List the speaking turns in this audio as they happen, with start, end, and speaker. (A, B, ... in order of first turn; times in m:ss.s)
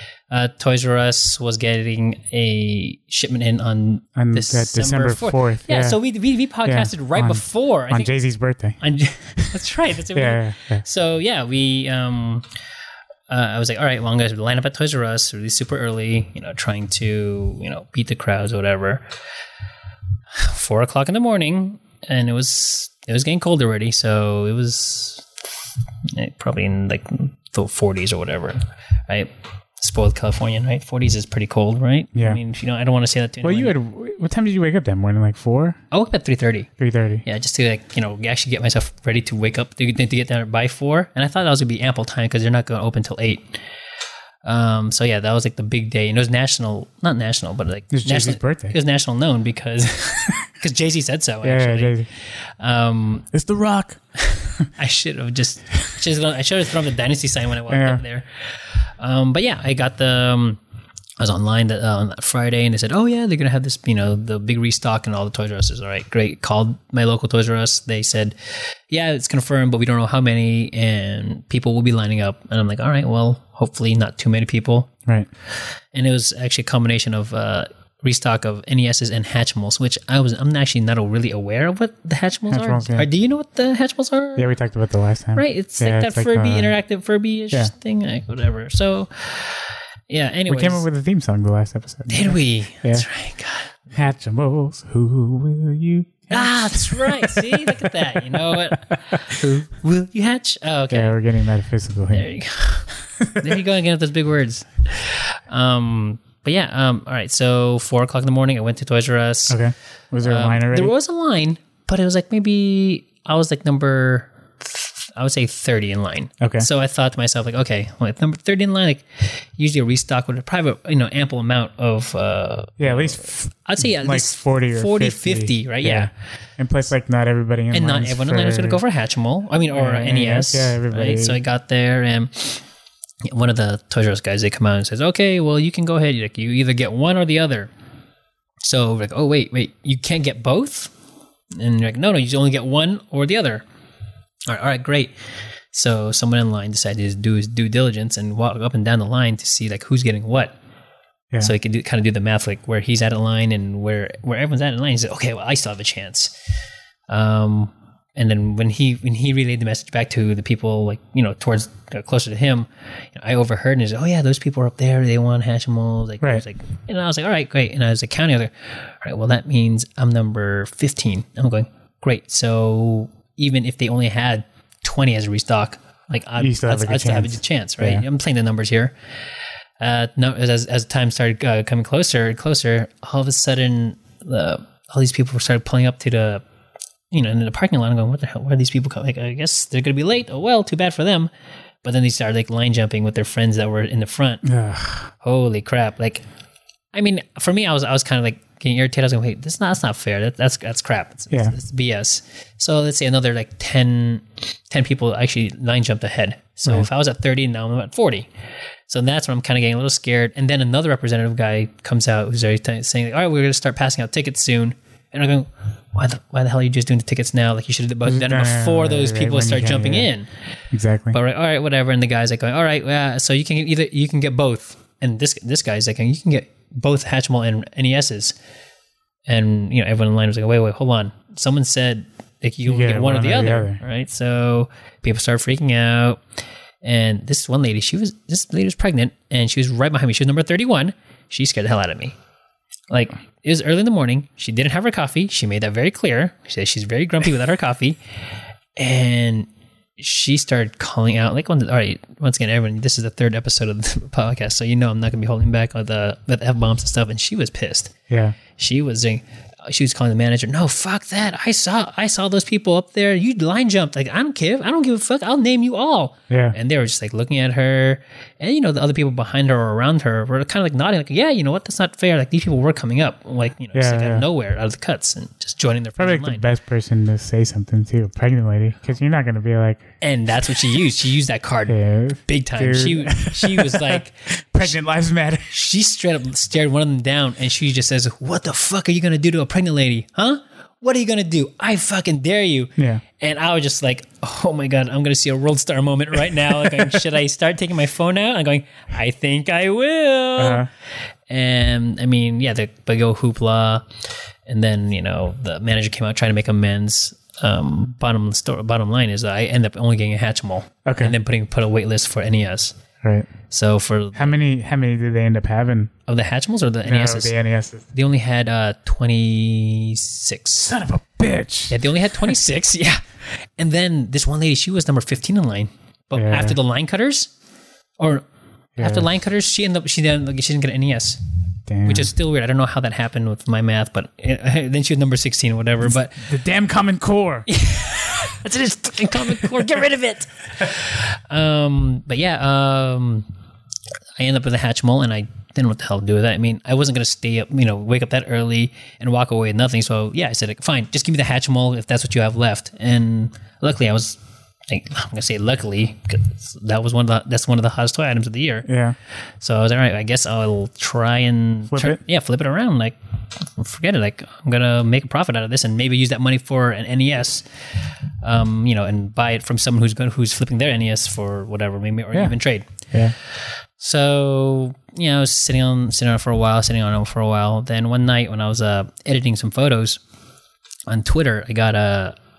0:00.3-0:08.1 A
0:04.2-0:06.0 B
0:06.6-0:08.8 B
0:08.8-0:12.4 A
0:10.1-0:10.8 B
0:13.3-0:19.0 A
0:20.3-0:25.3 A
0:26.1-0:33.7 A
0:32.1-0:32.4 B
0:33.4-0:35.8 B
0:35.9-0:36.7 A
0:36.8-0:37.2 B
0:37.2-0:43.6 A
0:44.4-0:52.0 A
0:47.9-0:48.8 B
0:51.4-0:52.1 B
0:52.6-0:53.3 A
0:53.3-0:54.7 B
0:54.8-1:00.6 A
0:57.7-0:58.0 B
1:01.2-1:14.9 A
1:15.9-1:24.5 A
1:22.5-1:23.1 B
1:24.4-1:26.7 B
1:25.3-1:30.8 A
1:30.5-1:33.1 B
1:32.1-1:33.8 A
1:33.9-1:38.6 B
1:36.3-1:41.2 A
1:40.9-1:42.3 B
1:42.1-1:49.6 A
1:43.2-1:43.6 B
1:49.5-1:50.9 B
1:50.2-2:06.1 A
1:56.4-1:56.7 B
2:02.8-2:08.8 B
2:07.7-2:12.6 A
2:09.7-2:11.4 B
2:13.2-2:17.7 A
2:18.6-2:20.9 A
2:21.5-2:23.6 A
2:24.5-2:25.1 A
2:25.7-2:30.5 A
2:31.4-2:36.3 A
2:37.1-2:58.9 A
2:56.4-2:58.0 B
2:59.8-3:06.4 A
3:07.1-3:11.3 A
3:11.8-3:14.4 A
3:14.4-3:15.1 B
3:15.2-3:16.2 A
3:16.9-3:28.3 A
3:28.9-3:40.3 A
3:38.0-3:40.1 B
3:40.7-3:41.2 B
3:41.1-3:48.3 A
3:49.3-3:56.2 A
3:52.6-3:53.8 B
3:56.8-4:02.1 A
4:02.9-4:08.0 A
4:08.8-4:17.9 A
4:18.1-4:18.4 B
4:18.5-4:36.4 A
4:26.3-4:26.6 B
4:33.7-4:34.2 B
4:36.0-4:39.9 B
4:40.0-4:44.7 A
4:41.7-4:45.5 B
4:45.5-5:00.6 A
4:52.8-4:53.0 B
5:00.4-5:00.7 B
5:01.3-5:12.8 A
5:10.8-5:11.1 B
5:13.0-5:13.3 B
5:13.5-5:14.4 A
5:14.1-5:15.9 B
5:16.1-5:17.3 A
5:16.8-5:17.8 B
5:17.9-5:20.8 A
5:20.6-5:22.3 B
5:21.7-5:23.0 A
5:23.6-5:27.3 A
5:26.2-5:26.6 B
5:28.0-5:28.2 A
5:28.8-5:29.1 B
5:28.8-5:31.2 A
5:31.7-5:32.1 B
5:31.8-5:36.2 A
5:35.8-5:37.5 B
5:37.5-5:43.3 A
5:44.2-5:58.7 A
5:58.7-5:59.0 B
5:59.4-6:07.4 A
6:01.7-6:02.0 B
6:08.2-6:12.7 A
6:13.8-6:20.0 A
6:20.9-6:22.2 A